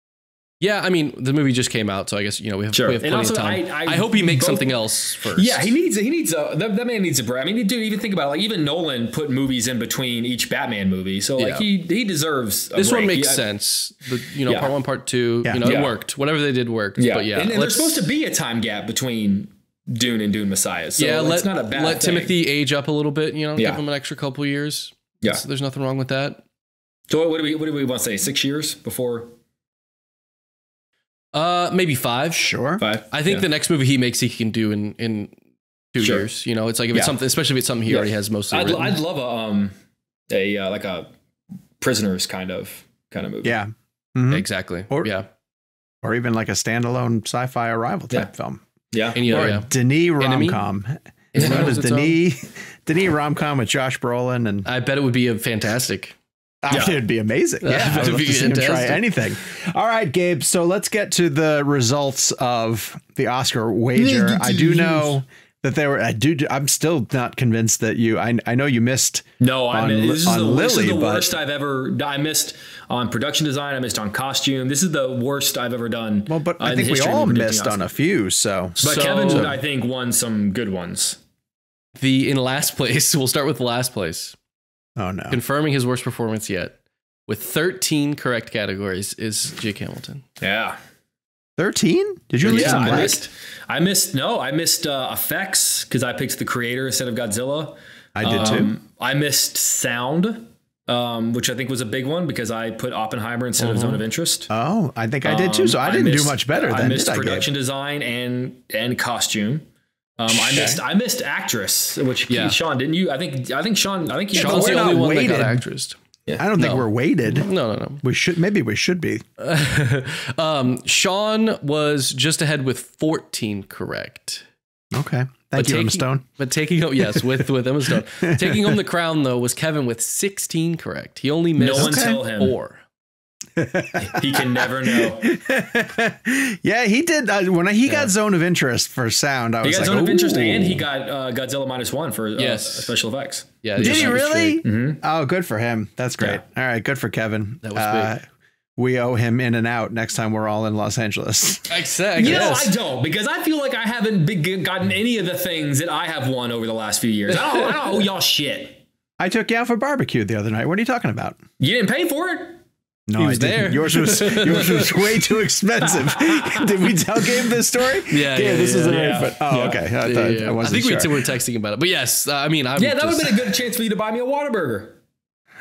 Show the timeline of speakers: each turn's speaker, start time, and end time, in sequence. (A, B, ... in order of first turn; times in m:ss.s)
0:00.6-0:05.7 A
0:02.7-0:13.4 B
0:11.4-0:11.7 A
0:12.8-0:18.1 A
0:14.5-0:14.7 B
0:15.4-0:15.8 C
0:15.6-0:16.0 B
0:17.0-0:22.3 B
0:21.0-0:26.4 A
0:23.6-0:23.8 B
0:27.1-0:29.3 B
0:31.3-0:32.5 A
0:32.3-0:32.8 C
0:32.8-0:33.5 B
0:33.1-0:35.4 A
0:35.9-0:39.0 A
0:36.0-0:36.3 B
0:37.9-0:39.7 B
0:40.3-0:41.1 B
0:41.8-0:43.6 B
0:43.4-0:45.1 C
0:44.3-0:45.3 A
0:46.0-0:48.6 C
0:48.9-0:49.6 B
0:49.1-0:50.6 A
0:49.3-0:54.7 C
0:51.3-0:52.2 A
0:51.4-0:51.7 B
0:54.6-0:56.2 A
0:56.6-1:11.3 C
0:56.7-0:57.0 B
0:57.6-0:59.0 A
1:04.0-1:05.0 B
1:09.4-1:17.9 B
1:16.3-1:19.6 C
1:18.8-1:21.2 B
1:18.8-1:19.6 A
1:22.0-1:24.4 A
1:25.0-1:25.4 C
1:25.3-1:26.8 A
1:27.3-1:30.2 A
1:30.4-1:30.8 B
1:31.6-1:33.2 C
1:32.4-1:44.5 B
1:32.5-1:33.1 A
1:38.2-1:38.7 C
1:43.6-1:44.0 A
1:44.5-1:47.5 C
1:45.2-1:49.6 B
1:50.2-1:55.0 B
1:50.3-1:50.8 C
1:52.3-1:52.6 A
1:54.3-1:55.7 C
1:54.3-1:56.0 A
1:56.4-1:57.5 C
1:56.6-1:58.0 A
1:58.0-1:59.2 C
1:59.4-2:04.4 A
2:04.9-2:06.2 C
2:05.6-2:12.8 A
2:08.2-2:08.7 C
2:11.6-2:12.6 B
2:11.7-2:12.2 C
2:13.6-2:20.8 C
2:14.0-2:15.3 B
2:17.9-2:18.1 A
2:19.6-2:25.0 B
2:22.4-2:22.9 A
2:23.6-2:24.6 A
2:23.8-2:28.2 C
2:27.6-2:28.2 A
2:28.8-2:32.7 C
2:31.7-2:32.7 A
2:32.2-2:38.8 B
2:39.2-2:41.4 C
2:41.6-2:42.6 B
2:43.1-2:51.2 C
2:43.2-2:45.1 A
2:46.0-2:46.7 B
2:48.1-2:49.3 A
2:48.8-2:49.9 B
2:50.0-2:53.5 A
2:52.8-2:55.0 B